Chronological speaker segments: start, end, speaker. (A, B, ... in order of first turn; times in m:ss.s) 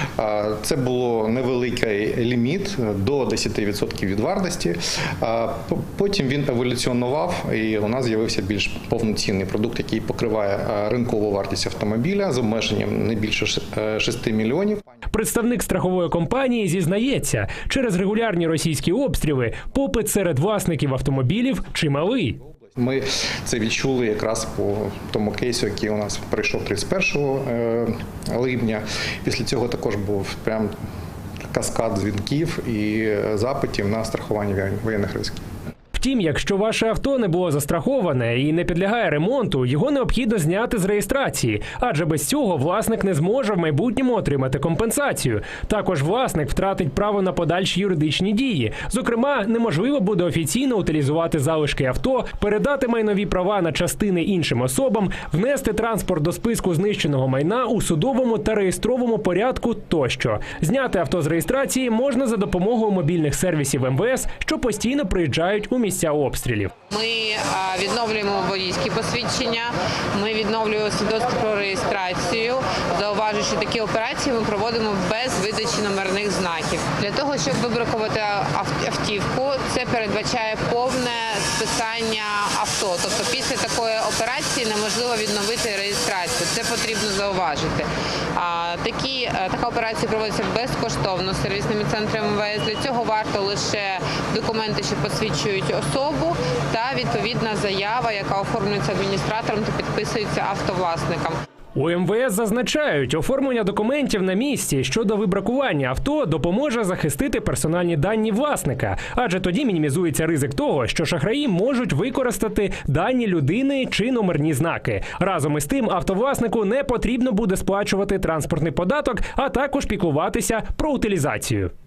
0:00.2-0:14.8 A
0:15.1-0:22.4 B
0:22.7-0:30.7 A
0:31.5-0:35.4 A
0:35.9-1:06.7 B
1:06.9-1:41.4 C
1:41.7-2:01.7 B